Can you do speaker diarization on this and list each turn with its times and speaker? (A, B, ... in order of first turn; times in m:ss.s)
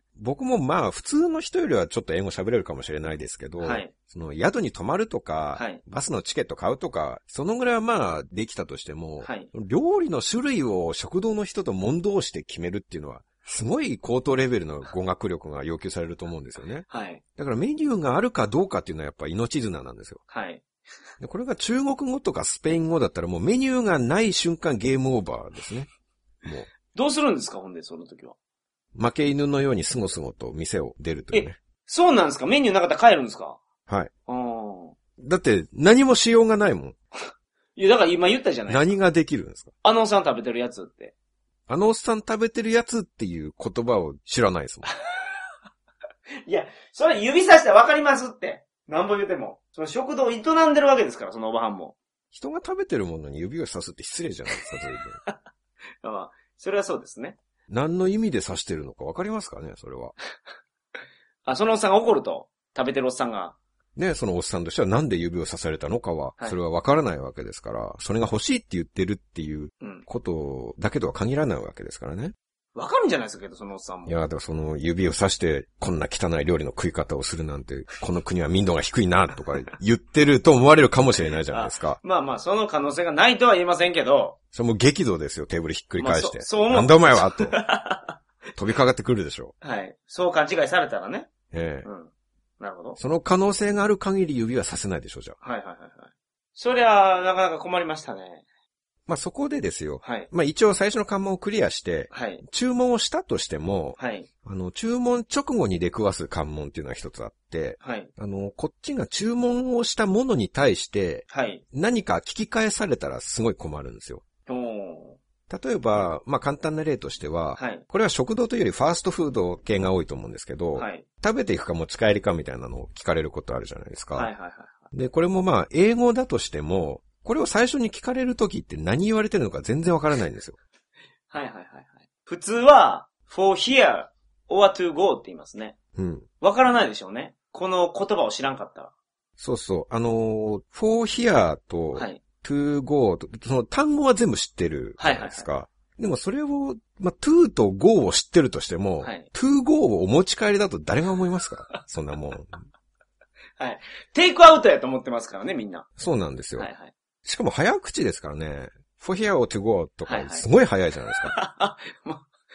0:00.2-0:16.8 A
0:03.6-0:03.9 B
0:05.5-0:05.8 B
0:09.2-0:09.5 B
0:16.9-0:17.2 B
0:17.4-0:20.2 A
0:20.3-0:20.6 B
0:21.2-0:25.9 A
0:26.9-0:28.4 B
0:28.9-0:31.6 A
0:31.3-0:33.6 B
0:34.3-0:34.9 B
0:35.2-0:37.0 A
0:37.8-0:38.9 B
0:38.7-0:39.7 A
0:39.8-0:41.1 B
0:41.7-0:44.9 A
0:46.4-0:52.0 B
0:52.3-0:55.2 A
0:56.0-0:57.4 B
0:57.7-1:00.1 A
1:01.4-1:03.6 B
1:04.0-1:12.3 A
1:09.8-1:10.0 B
1:12.7-1:14.1 B
1:14.0-1:22.0 A
1:21.5-1:24.4 B
1:24.5-1:27.6 A
1:26.0-1:28.2 B
1:28.6-1:29.5 A
1:29.6-1:31.3 B
1:31.5-1:31.9 A
1:31.8-1:33.0 B
1:33.0-1:35.4 A
1:35.4-1:38.4 B
1:39.1-1:54.2 A
1:40.0-1:40.3 B
1:42.1-1:42.4 B
1:44.0-1:44.3 B
1:47.8-1:48.1 B
1:51.3-1:51.6 B
1:54.5-1:55.2 B
1:55.5-2:04.3 A
1:57.6-1:57.8 B
2:00.8-2:01.0 B
2:04.1-2:04.8 B
2:04.9-2:10.6 A
2:11.3-2:15.7 B
2:16.0-2:16.3 A
2:16.4-2:18.9 B
2:19.4-2:32.5 A
2:21.9-2:22.2 B
2:25.0-2:25.5 B
2:29.0-2:29.3 B
2:33.6-2:35.9 B
2:36.0-2:36.7 A
2:36.6-2:36.9 B
2:37.2-2:41.3 A
2:40.0-2:40.4 B
2:41.2-2:42.2 B